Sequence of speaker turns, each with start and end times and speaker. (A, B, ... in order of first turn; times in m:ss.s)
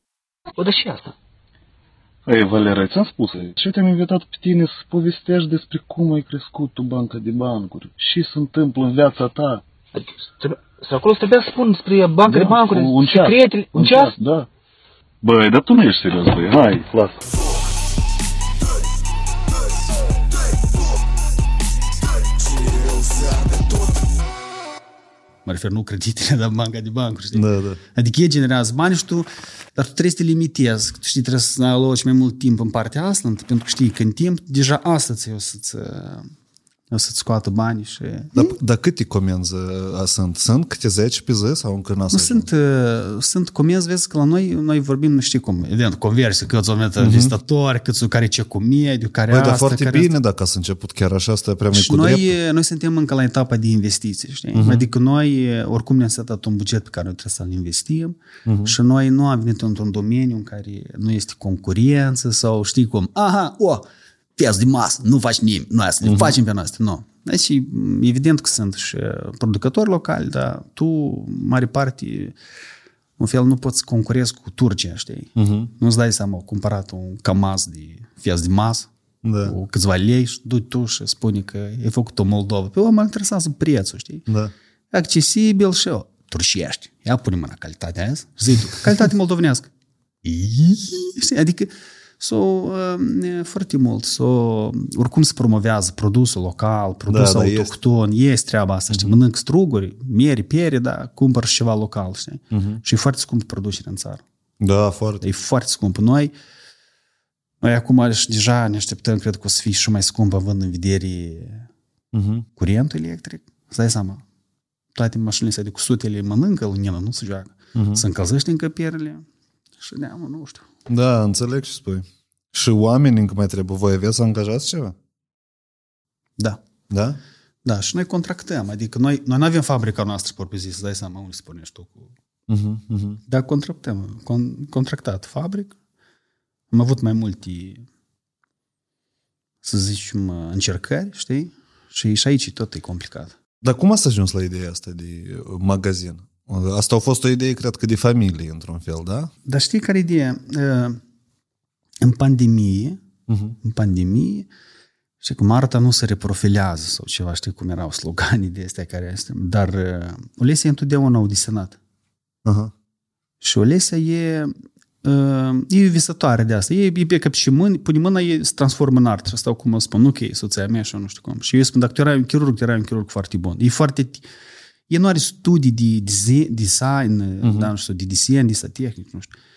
0:00.6-0:01.1 A
0:02.3-0:09.6 B
0:10.0-0:14.1 A
0:12.3-0:14.5 B
0:15.2-0:17.2 B
0:25.5-0:36.3 C
0:27.3-0:27.8 D
0:36.9-0:38.6 C
0:38.4-0:42.5 D
0:42.1-0:50.1 C
0:47.0-0:47.3 D
0:49.3-0:52.4 D
0:51.7-1:03.8 C
0:54.5-0:54.9 D
0:58.5-0:58.7 D
1:04.4-1:12.4 C
1:06.0-1:06.4 D
1:13.2-1:18.9 C
1:15.4-1:15.7 D
1:19.2-1:19.6 D
1:19.4-1:24.3 C
1:24.3-1:24.5 D
1:24.9-1:29.7 C
1:30.2-1:44.2 C
1:37.1-1:37.7 D
1:38.9-1:39.2 D
1:42.5-1:42.8 D
1:44.6-1:45.2 D
1:45.2-1:46.3 C
1:47.6-1:51.7 C
1:52.1-1:52.5 D
1:52.6-1:54.2 C
1:54.9-1:59.3 C
1:57.8-1:58.0 D
1:59.8-2:00.7 C
2:00.9-2:05.0 D
2:06.9-2:07.2 D
2:07.6-2:12.1 C
2:12.5-2:13.2 D
2:13.3-2:15.7 C
2:16.7-2:17.8 C
2:19.6-2:23.4 C
2:23.6-2:29.3 D
2:29.5-2:31.0 C
2:32.0-2:33.0 C
2:33.3-2:33.6 D
2:33.6-2:34.5 C
2:35.2-2:41.8 C
2:42.4-2:42.7 D
2:43.4-2:44.5 C
2:45.0-2:54.3 C
2:54.9-2:59.3 C
2:57.4-2:57.7 D